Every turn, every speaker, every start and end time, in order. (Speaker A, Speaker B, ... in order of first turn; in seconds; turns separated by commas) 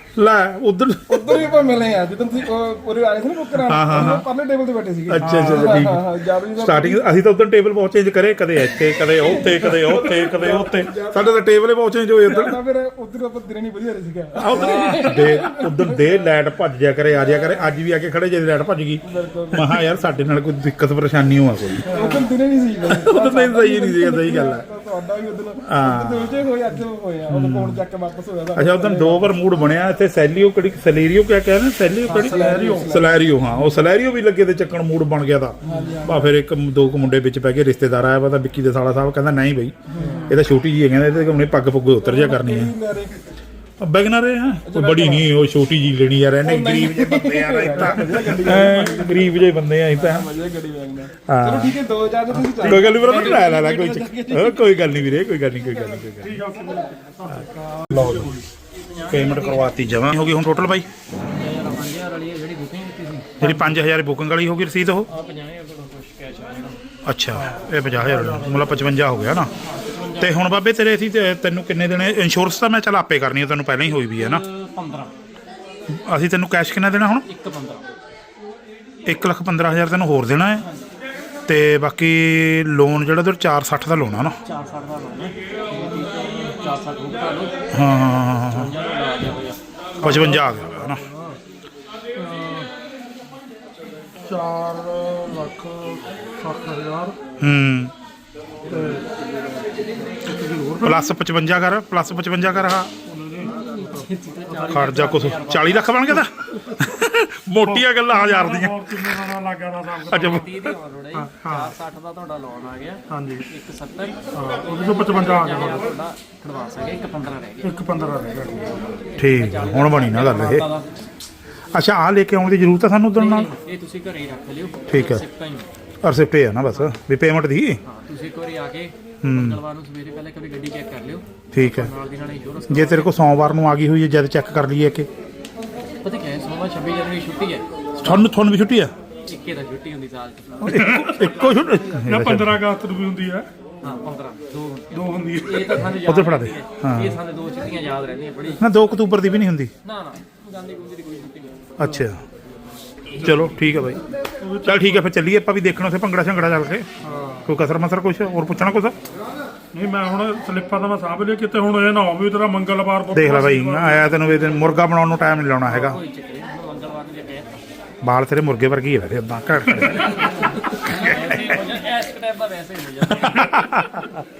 Speaker A: 0.1-1.5, Speaker B: 1.1-7.0, Speaker A: 3.6-4.2, Speaker A: 5.1-6.0, Speaker C: 5.2-5.7, Speaker A: 6.6-12.6, Speaker B: 9.2-11.3, Speaker B: 12.2-16.1, Speaker A: 14.3-21.9, Speaker C: 14.6-15.3, Speaker B: 19.0-19.9, Speaker B: 21.9-29.3, Speaker A: 22.9-24.6, Speaker A: 25.6-26.4, Speaker A: 27.3-27.8, Speaker A: 28.5-39.8, Speaker C: 32.1-32.9, Speaker B: 32.1-33.3, Speaker B: 35.6-36.3, Speaker B: 39.9-40.4, Speaker A: 40.3-42.7, Speaker B: 42.0-43.1, Speaker A: 43.8-50.3, Speaker B: 44.6-45.3, Speaker B: 46.4-56.1, Speaker C: 47.8-48.7, Speaker A: 51.3-51.8, Speaker C: 52.4-53.5, Speaker A: 52.6-56.4, Speaker C: 56.2-58.5, Speaker A: 57.9-58.3, Speaker D: 58.7-59.8, Speaker A: 59.1-60.9, Speaker D: 61.3-63.7, Speaker A: 63.4-65.1, Speaker D: 65.1-66.8, Speaker A: 67.0-69.5, Speaker C: 67.3-68.9, Speaker D: 69.6-70.4, Speaker A: 70.2-74.4, Speaker D: 74.0-75.1, Speaker A: 75.9-77.2, Speaker D: 77.2-77.9, Speaker A: 79.0-80.6, Speaker A: 81.5-84.3, Speaker D: 84.4-87.5, Speaker A: 87.7-88.7, Speaker D: 88.5-90.1, Speaker A: 90.0-91.0, Speaker C: 90.0-91.3, Speaker C: 92.1-92.7, Speaker C: 94.2-97.2, Speaker A: 97.4-97.9, Speaker C: 98.7-99.1, Speaker C: 100.2-101.0, Speaker A: 100.8-102.9, Speaker C: 103.0-104.8, Speaker D: 103.7-106.2, Speaker A: 104.7-109.2, Speaker C: 107.6-110.5, Speaker D: 110.1-117.7, Speaker A: 110.1-110.5, Speaker C: 111.1-111.7, Speaker C: 113.1-113.5, Speaker C: 114.3-115.9, Speaker C: 117.6-118.9, Speaker A: 119.2-120.7, Speaker D: 119.2-120.9, Speaker A: 121.7-123.5, Speaker D: 123.1-125.7, Speaker A: 124.9-125.2, Speaker A: 126.0-127.8, Speaker D: 126.7-127.0, Speaker D: 127.8-133.1, Speaker A: 129.2-129.6, Speaker A: 131.5-131.9, Speaker A: 132.7-135.1, Speaker D: 136.0-138.3, Speaker A: 138.0-138.9, Speaker D: 139.3-140.7, Speaker C: 140.6-141.4, Speaker A: 140.6-142.6, Speaker D: 141.4-141.8, Speaker C: 142.0-143.5, Speaker D: 143.8-148.6, Speaker C: 144.9-145.9, Speaker A: 146.0-147.2, Speaker A: 148.6-149.7, Speaker D: 149.8-151.7, Speaker A: 151.8-152.2, Speaker A: 153.2-154.0, Speaker C: 154.4-155.1, Speaker A: 154.6-156.9, Speaker C: 157.0-157.5, Speaker A: 157.4-158.9, Speaker C: 159.7-164.8, Speaker A: 163.1-166.0, Speaker D: 165.6-167.5, Speaker A: 168.0-171.6, Speaker C: 169.8-170.3, Speaker D: 170.4-173.5, Speaker A: 173.1-174.2, Speaker C: 173.6-173.8